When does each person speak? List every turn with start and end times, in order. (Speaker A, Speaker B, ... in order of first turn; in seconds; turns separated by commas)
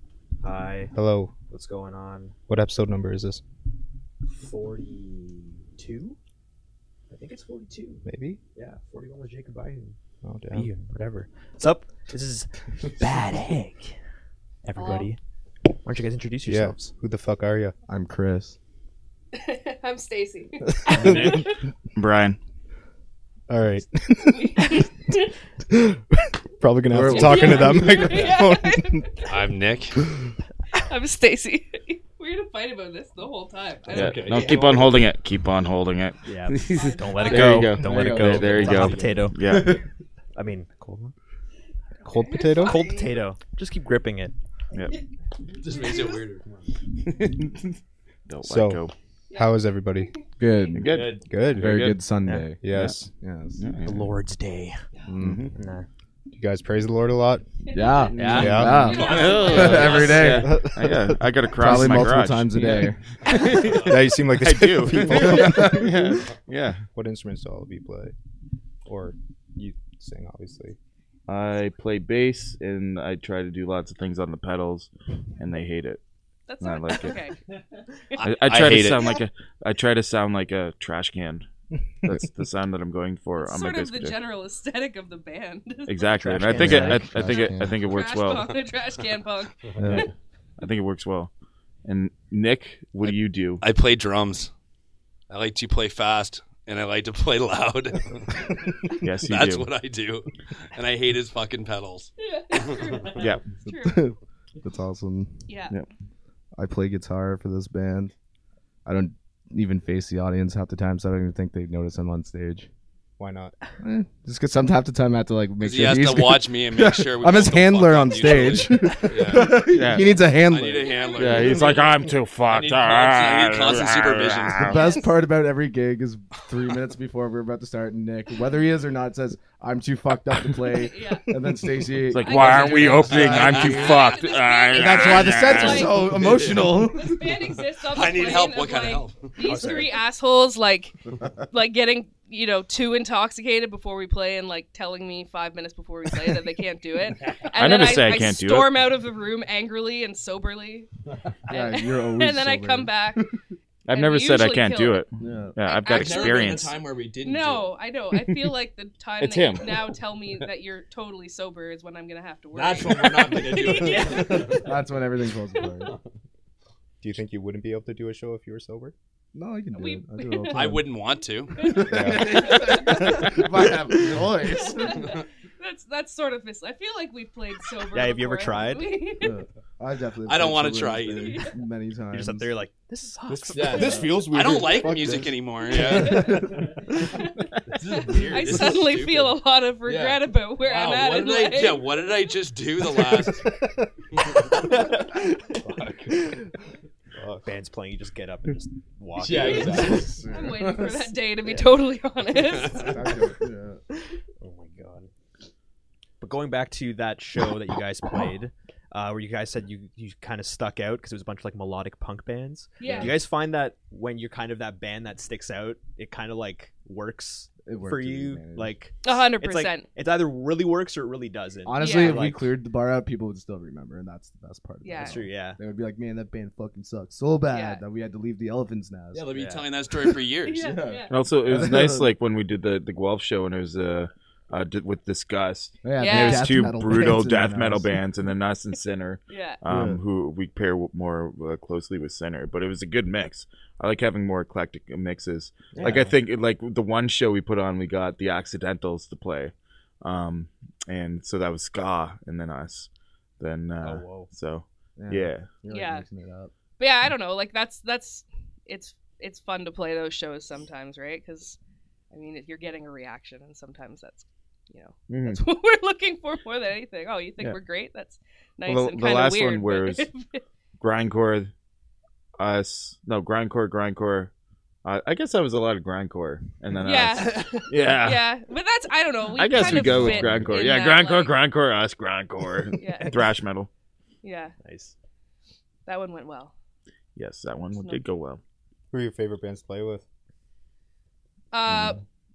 Speaker A: 0.4-0.9, Speaker B: 0.9-1.3, Speaker A: 1.5-2.3, Speaker B: 2.5-3.4, Speaker A: 4.3-6.2, Speaker A: 7.1-8.0, Speaker B: 8.0-8.4, Speaker A: 8.6-10.0, Speaker B: 10.2-10.7, Speaker A: 10.5-13.9, Speaker A: 14.6-15.2, Speaker C: 14.8-15.1, Speaker A: 15.8-16.9, Speaker B: 16.4-17.8, Speaker D: 17.9-18.6, Speaker C: 19.3-21.6, Speaker E: 20.9-21.4, Speaker B: 21.0-21.3, Speaker F: 21.9-22.4, Speaker B: 23.5-24.9, Speaker C: 24.3-25.2, Speaker B: 26.6-29.2, Speaker D: 26.9-28.3, Speaker C: 27.1-29.2, Speaker E: 29.2-30.0, Speaker C: 30.7-34.5, Speaker F: 33.9-39.8, Speaker E: 33.9-35.1, Speaker A: 36.2-39.7, Speaker C: 36.8-37.6, Speaker D: 37.7-39.8, Speaker A: 40.3-41.1, Speaker B: 42.0-42.9, Speaker C: 42.1-43.0, Speaker A: 42.5-44.3, Speaker E: 45.5-46.8, Speaker F: 47.0-47.7, Speaker F: 48.3-48.9, Speaker B: 48.4-48.8, Speaker C: 49.3-49.6, Speaker B: 49.3-50.1, Speaker D: 50.4-50.9, Speaker F: 50.7-52.0, Speaker E: 50.8-51.3, Speaker B: 51.2-51.9, Speaker D: 51.6-53.6, Speaker B: 52.6-53.1, Speaker F: 52.7-53.0, Speaker F: 53.6-54.1, Speaker A: 53.8-54.8, Speaker D: 55.0-55.5, Speaker F: 55.2-55.6, Speaker A: 55.6-55.9, Speaker B: 56.3-57.4, Speaker C: 57.7-58.1, Speaker D: 57.7-60.8, Speaker A: 58.1-58.7, Speaker F: 58.2-66.8, Speaker B: 58.3-59.1, Speaker C: 58.8-60.2, Speaker E: 58.9-60.3, Speaker B: 60.4-61.1, Speaker D: 61.5-63.0, Speaker E: 63.5-64.0, Speaker B: 63.6-66.3, Speaker D: 64.9-66.0, Speaker B: 66.9-68.1, Speaker B: 68.8-70.8, Speaker F: 71.3-76.0, Speaker C: 76.5-77.4, Speaker F: 76.6-77.2, Speaker C: 78.1-79.2, Speaker E: 78.2-79.2, Speaker F: 78.2-81.5, Speaker F: 82.0-84.2, Speaker C: 83.4-86.4, Speaker F: 85.9-88.5, Speaker A: 86.2-87.0, Speaker D: 86.5-87.7, Speaker C: 87.1-90.1, Speaker D: 89.8-90.1, Speaker F: 90.6-91.3, Speaker F: 91.8-93.6, Speaker E: 93.0-94.5, Speaker E: 95.3-102.8, Speaker F: 99.0-99.7, Speaker C: 102.2-104.0, Speaker F: 103.1-103.4, Speaker D: 103.6-105.4, Speaker C: 105.5-105.8, Speaker D: 106.5-108.1, Speaker D: 108.8-112.7, Speaker B: 113.2-113.5, Speaker D: 113.8-120.9, Speaker E: 115.6-119.7, Speaker F: 119.6-120.2, Speaker E: 120.4-121.9, Speaker C: 120.5-121.9, Speaker F: 121.1-124.9, Speaker E: 122.4-124.8, Speaker D: 124.5-133.7, Speaker C: 124.7-125.0, Speaker C: 130.7-131.3, Speaker F: 132.1-136.2, Speaker C: 132.2-140.9, Speaker E: 132.4-134.4, Speaker D: 134.7-137.4, Speaker E: 136.2-136.7, Speaker E: 137.7-139.9, Speaker A: 139.4-140.0, Speaker C: 141.5-150.9, Speaker E: 147.2-147.7, Speaker F: 147.6-148.9, Speaker C: 151.5-153.3, Speaker D: 151.5-153.3, Speaker F: 153.8-156.8, Speaker C: 153.9-155.0, Speaker D: 155.2-155.6, Speaker C: 155.6-156.7, Speaker E: 155.9-157.8, Speaker C: 157.2-164.7, Speaker F: 158.1-158.5, Speaker F: 159.2-159.9, Speaker E: 162.5-164.7, Speaker D: 164.2-165.9, Speaker B: 167.0-168.9, Speaker D: 169.3-170.8, Speaker C: 169.7-170.8, Speaker E: 170.5-172.4, Speaker C: 171.6-173.4, Speaker D: 171.6-175.1, Speaker B: 171.9-173.0, Speaker C: 174.5-179.4, Speaker A: 177.9-178.9, Speaker D: 179.2-182.5, Speaker E: 180.2-181.5, Speaker C: 181.2-181.5, Speaker A: 182.1-184.3, Speaker E: 183.3-186.7, Speaker D: 183.8-186.6, Speaker B: 183.8-185.3, Speaker C: 185.7-191.9, Speaker E: 187.7-193.6, Speaker E: 194.2-194.9, Speaker E: 195.6-196.3, Speaker B: 197.1-197.5, Speaker A: 197.4-200.2, Speaker E: 199.1-200.3, Speaker C: 199.3-203.1, Speaker D: 199.9-201.1, Speaker E: 202.3-203.0, Speaker D: 202.8-203.8, Speaker A: 204.4-205.1, Speaker A: 206.2-222.5, Speaker C: 212.8-213.2, Speaker D: 212.8-213.1, Speaker D: 217.6-218.7, Speaker C: 219.0-219.8, Speaker D: 221.6-229.3, Speaker C: 221.8-222.2, Speaker C: 224.8-225.2, Speaker A: 225.0-225.6, Speaker C: 227.5-227.8, Speaker E: 229.1-230.9, Speaker A: 229.3-229.7, Speaker C: 230.4-231.1, Speaker D: 230.6-232.1, Speaker F: 231.1-252.9, Speaker D: 235.8-237.9, Speaker C: 236.0-236.6, Speaker C: 239.3-239.6, Speaker D: 239.7-240.0, Speaker D: 245.7-246.0, Speaker A: 245.7-246.1, Speaker F: 253.4-255.5, Speaker A: 253.8-254.3, Speaker D: 255.0-256.5, Speaker C: 255.7-256.0, Speaker C: 256.8-261.6, Speaker C: 262.1-270.4, Speaker F: 265.1-265.4, Speaker F: 268.6-270.1, Speaker F: 270.8-271.5, Speaker F: 272.4-274.3, Speaker F: 274.8-278.3, Speaker C: 276.8-281.4, Speaker A: 277.2-277.7, Speaker F: 279.3-283.7, Speaker D: 279.5-280.6, Speaker C: 282.8-283.3, Speaker C: 284.2-284.5, Speaker A: 284.6-284.9, Speaker C: 285.9-286.5, Speaker F: 287.1-288.4, Speaker C: 287.7-288.0, Speaker B: 288.9-290.0, Speaker C: 291.5-292.0, Speaker F: 291.7-292.0